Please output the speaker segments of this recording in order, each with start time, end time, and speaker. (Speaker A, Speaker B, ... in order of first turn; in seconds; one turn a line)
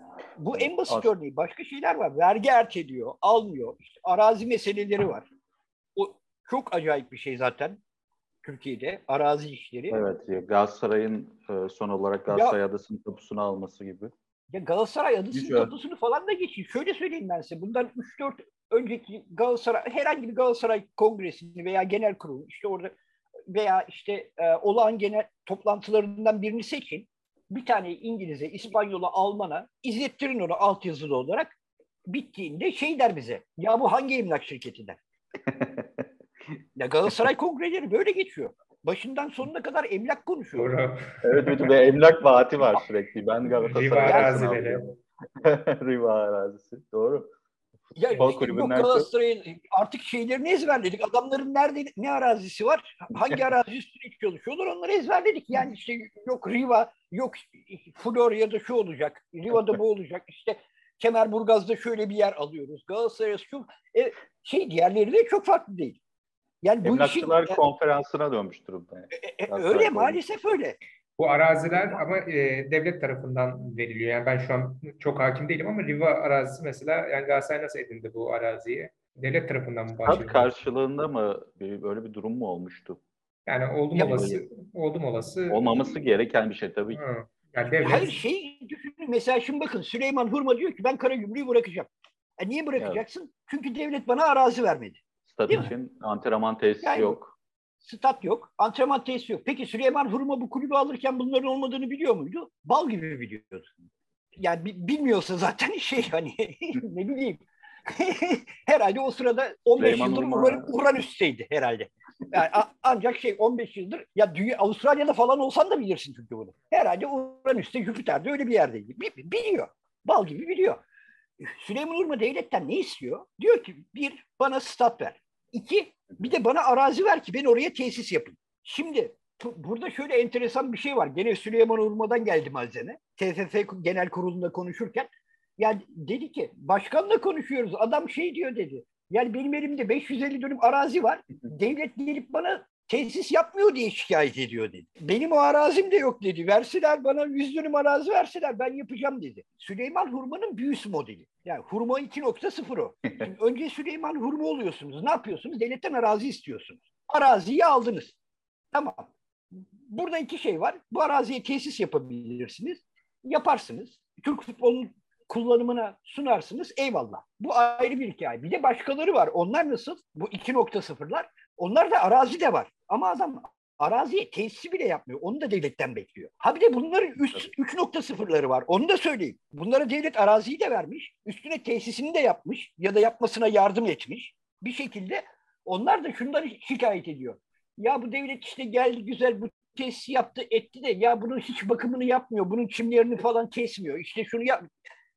Speaker A: 0.4-5.3
Speaker B: 0.5-1.1
Speaker A: 6.0-7.8
Speaker A: 8.4-10.0
Speaker B: 9.9-14.1
Speaker A: 12.3-12.6
Speaker A: 14.5-22.9
Speaker B: 15.3-15.7
Speaker A: 23.5-31.5
Speaker A: 32.1-35.0
Speaker B: 35.5-36.0
Speaker A: 36.8-40.7
Speaker C: 40.5-41.7
Speaker B: 41.2-44.8
Speaker C: 43.6-45.0
Speaker A: 44.0-44.5
Speaker B: 45.4-47.3
Speaker A: 48.0-66.0
Speaker B: 48.2-49.1
Speaker A: 66.6-67.6
Speaker B: 66.8-70.4
Speaker A: 69.1-70.8
Speaker C: 71.2-80.5
Speaker B: 80.0-83.0
Speaker C: 83.5-85.8
Speaker B: 83.9-84.4
Speaker B: 85.5-87.0
Speaker C: 86.9-88.2
Speaker A: 87.8-95.7
Speaker B: 95.2-97.3
Speaker A: 96.8-97.2
Speaker A: 97.8-103.7
Speaker A: 104.4-120.8
Speaker B: 109.8-110.7
Speaker A: 121.4-158.2
Speaker A: 158.7-159.1
Speaker A: 159.9-194.6